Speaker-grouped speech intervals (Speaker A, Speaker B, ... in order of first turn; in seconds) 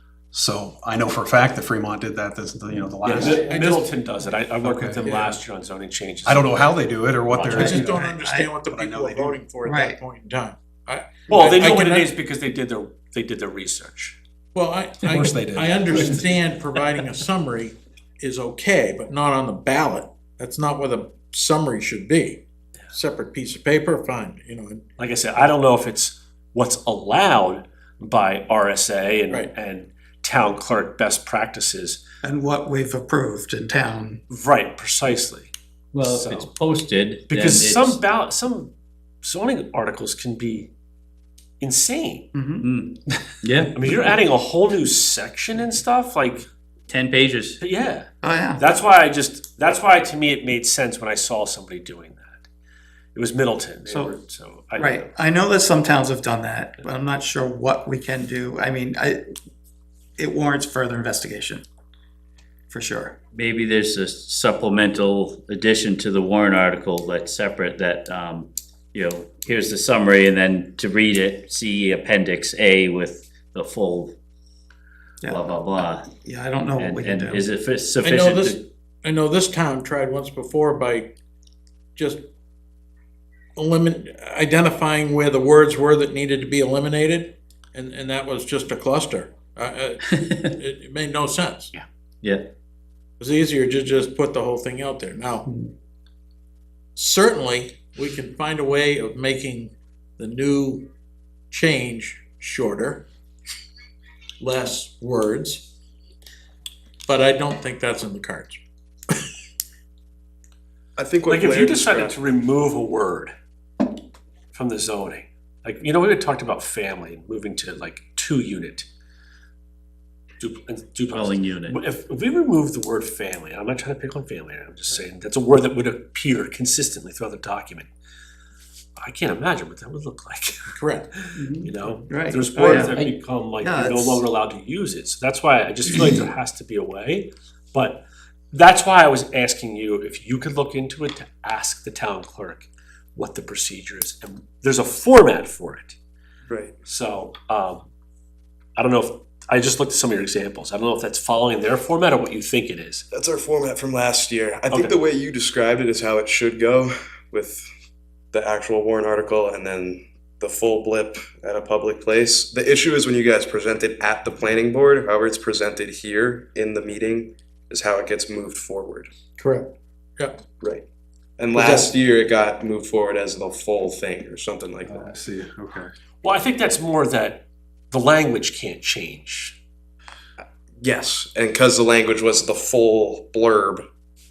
Speaker A: 0.3-3.5, 4.6-5.2, 6.3-8.1, 8.7-9.4, 15.0-16.2, 174.9-175.9
Speaker B: 3.0-6.6, 7.3-7.7, 11.3-14.2, 25.0-32.0, 34.3-36.5, 37.3-38.7, 39.2-40.7, 41.6-42.3, 43.7-46.5, 47.6-52.5, 53.1-55.1, 111.3-113.3, 114.5-118.9, 120.4-127.9, 129.0-146.0, 146.8-147.9, 148.8-153.1, 176.2-179.6
Speaker C: 3.2-3.9, 5.0-5.4, 7.6-12.1, 14.6-24.9, 78.0-81.1, 82.0-82.2, 83.6-91.7, 93.2-95.5, 97.0-100.9, 101.5-103.1, 104.4-105.7, 107.0-108.6, 130.7-131.1, 169.4-170.4, 171.6-171.8
Speaker D: 7.5-8.5, 9.6-10.0, 32.2-34.2, 42.3-42.7, 48.2-48.7, 54.8-59.2, 60.2-61.6, 62.7-63.2, 76.1-77.5, 131.4-134.2, 135.9-136.3
Speaker E: 35.9-38.0, 42.6-44.2, 46.9-47.6, 63.3-74.2, 75.3-76.1, 76.8-78.7, 90.1-90.5, 91.8-92.5, 121.1-121.8
Speaker F: 111.0-112.2, 146.5-146.8, 153.1-157.7, 158.3-169.1, 171.4-175.2, 180.8-183.8